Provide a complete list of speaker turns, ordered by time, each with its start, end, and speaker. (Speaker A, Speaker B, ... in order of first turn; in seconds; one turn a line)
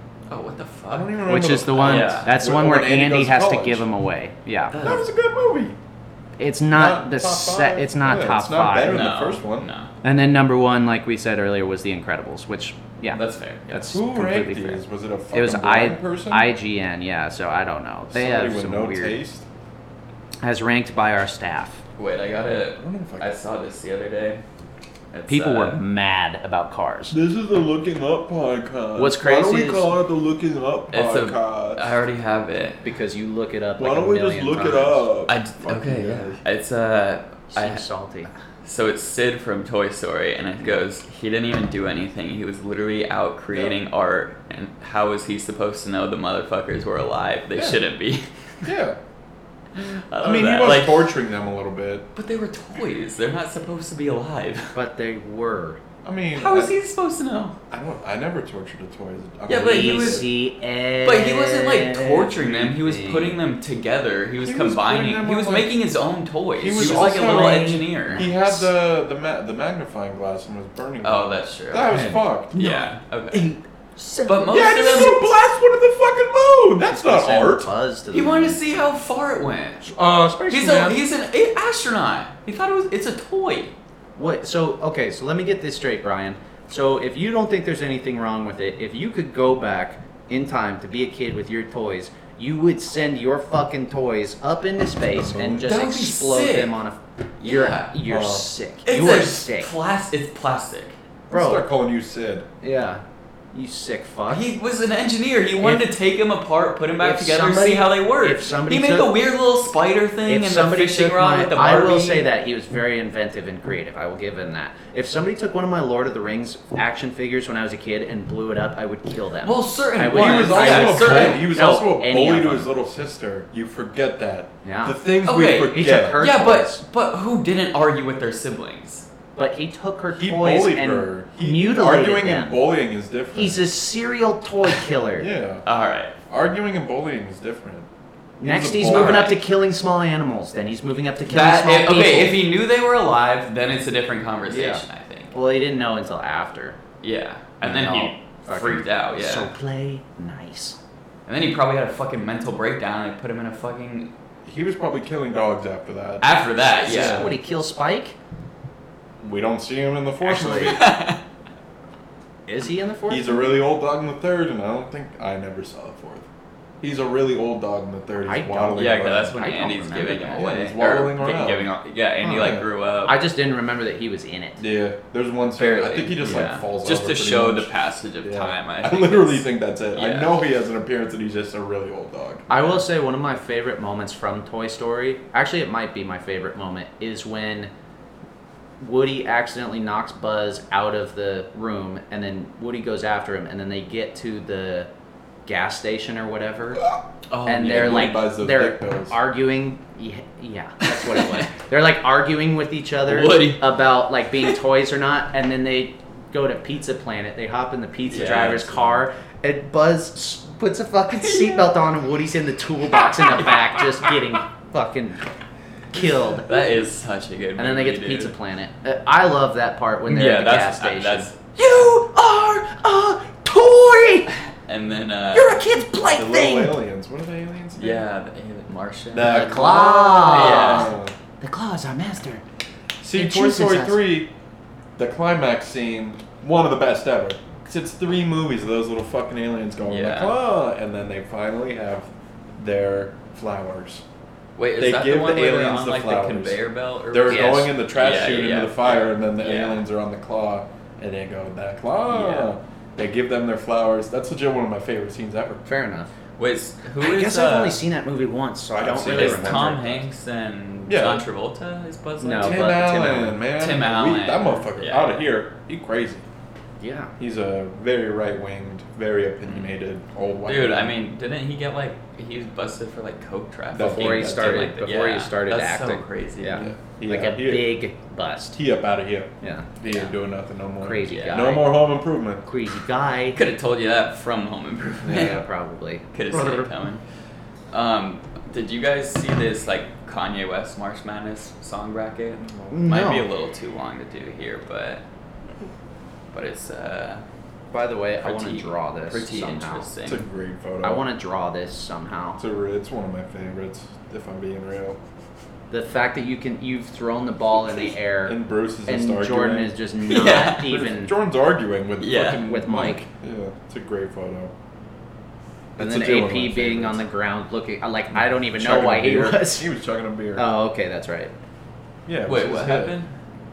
Speaker A: 0.3-2.3
Speaker B: 0.9-3.9
Speaker C: 1.2-4.8
Speaker A: 4.7-5.0
Speaker B: 4.8-5.8
Speaker C: 6.4-9.0
Speaker B: 6.7-9.7
Speaker A: 8.8-9.9
Speaker C: 10.0-19.2
Speaker A: 13.1-13.9
Speaker B: 13.9-16.5
Speaker B: 18.1-19.4
Speaker C: 20.4-21.8
Speaker A: 22.0-24.4
Speaker B: 22.8-23.4
Speaker A: 25.1-25.8
Speaker C: 25.3-27.2
Speaker B: 27.1-31.9
Speaker C: 28.9-29.9
Speaker A: 30.9-32.8
Speaker C: 32.8-35.1
Speaker B: 33.8-36.4
Speaker A: 35.3-37.8
Speaker C: 37.5-38.3
Speaker A: 38.6-48.7
Speaker B: 43.5-43.8
Speaker B: 48.6-49.0
Speaker A: 49.7-51.1
Speaker B: 50.2-52.1
Speaker A: 52.1-54.7
Speaker C: 54.7-55.8
Speaker B: 56.0-56.8
Speaker A: 56.4-57.6
Speaker B: 57.7-60.3
Speaker A: 59.5-60.3
Speaker C: 59.5-63.4
Speaker A: 61.0-68.3
Speaker B: 64.4-65.8
Speaker B: 66.6-72.5
Speaker C: 66.7-68.6
Speaker A: 71.0-73.5
Speaker C: 71.9-74.7
Speaker A: 74.2-75.2
Speaker B: 74.5-77.7
Speaker C: 76.8-78.6
Speaker A: 78.1-79.9
Speaker C: 79.8-81.0
Speaker A: 80.5-83.7
Speaker C: 84.2-99.7
Speaker B: 95.1-95.7
Speaker A: 95.6-96.8
Speaker A: 97.4-98.0
Speaker B: 98.1-98.5
Speaker A: 98.8-101.0
Speaker B: 101.3-102.5
Speaker C: 101.3-101.7
Speaker C: 102.6-104.5
Speaker A: 104.3-112.3
Speaker C: 105.6-105.9
Speaker C: 107.0-109.1
Speaker C: 110.3-122.8
Speaker A: 119.4-121.5
Speaker B: 120.1-126.2
Speaker C: 124.6-125.0
Speaker A: 125.2-129.1
Speaker C: 125.7-126.8
Speaker C: 129.3-132.6
Speaker B: 130.2-133.6
Speaker C: 133.3-135.3
Speaker B: 135.2-135.6
Speaker A: 135.6-136.1
Speaker B: 136.3-137.9
Speaker C: 138.4-142.4
Speaker B: 138.4-139.3
Speaker A: 138.8-139.4
Speaker A: 141.3-145.3
Speaker C: 144.5-146.8
Speaker A: 147.0-149.5
Speaker C: 147.6-150.8
Speaker A: 151.3-154.1
Speaker B: 154.4-157.3
Speaker A: 156.2-157.3
Speaker C: 156.8-158.2
Speaker B: 159.2-160.9
Speaker C: 160.2-160.8
Speaker A: 160.6-161.2
Speaker C: 162.5-163.6
Speaker B: 163.1-166.2
Speaker B: 166.8-169.4
Speaker C: 168.2-170.5
Speaker A: 168.8-173.2
Speaker B: 170.3-171.7
Speaker C: 172.2-174.6
Speaker B: 172.3-172.7
Speaker B: 174.6-182.5
Speaker A: 175.6-180.4
Speaker C: 182.5-187.7
Speaker C: 188.8-194.9
Speaker C: 195.4-196.8
Speaker A: 197.3-198.2
Speaker C: 197.4-215.2
Speaker B: 197.6-199.2
Speaker A: 200.9-201.4
Speaker A: 203.0-203.7
Speaker A: 208.1-208.9
Speaker A: 211.2-211.7
Speaker C: 215.9-216.6
Speaker A: 216.4-218.3
Speaker C: 217.6-224.3
Speaker A: 220.1-221.4
Speaker A: 224.6-225.6
Speaker C: 225.3-226.8
Speaker B: 226.0-228.1
Speaker A: 227.8-230.9
Speaker B: 229.1-231.1
Speaker C: 229.2-232.4
Speaker B: 233.0-234.3
Speaker C: 233.1-234.0
Speaker B: 235.0-244.0
Speaker A: 239.8-240.3
Speaker A: 244.6-249.8
Speaker B: 244.8-246.6
Speaker B: 247.1-255.6
Speaker C: 247.3-247.7
Speaker A: 252.1-252.5
Speaker C: 255.6-256.1
Speaker A: 256.4-257.8
Speaker C: 257.0-260.0
Speaker B: 258.7-260.0
Speaker A: 259.1-263.0
Speaker B: 260.9-261.2
Speaker C: 262.2-263.4
Speaker B: 262.4-266.2
Speaker A: 263.5-265.2
Speaker C: 266.8-267.1
Speaker B: 267.2-271.0
Speaker A: 270.4-276.7
Speaker B: 273.7-274.7
Speaker C: 273.8-278.6
Speaker B: 276.6-277.8
Speaker B: 278.5-282.4
Speaker C: 279.4-279.7
Speaker A: 279.8-280.1
Speaker C: 280.8-281.7
Speaker A: 281.1-281.5
Speaker C: 282.4-283.4
Speaker A: 283.3-285.4
Speaker C: 285.1-286.7
Speaker B: 285.1-285.4
Speaker A: 286.1-287.0
Speaker A: 287.7-295.0
Speaker B: 292.4-292.8
Speaker C: 292.7-293.3
Speaker A: 296.3-297.2
Speaker C: 297.7-299.9
Speaker A: 298.2-300.2
Speaker B: 300.0-301.0
Speaker C: 300.8-302.4
Speaker B: 302.4-305.0
Speaker C: 305.7-311.1
Speaker B: 307.6-309.7
Speaker A: 310.1-310.8
Speaker B: 310.4-314.5
Speaker A: 312.0-312.5
Speaker C: 312.4-313.1
Speaker B: 315.7-317.0
Speaker C: 315.8-319.7
Speaker B: 318.1-320.5
Speaker C: 320.4-321.3
Speaker B: 322.1-323.0
Speaker A: 322.2-323.1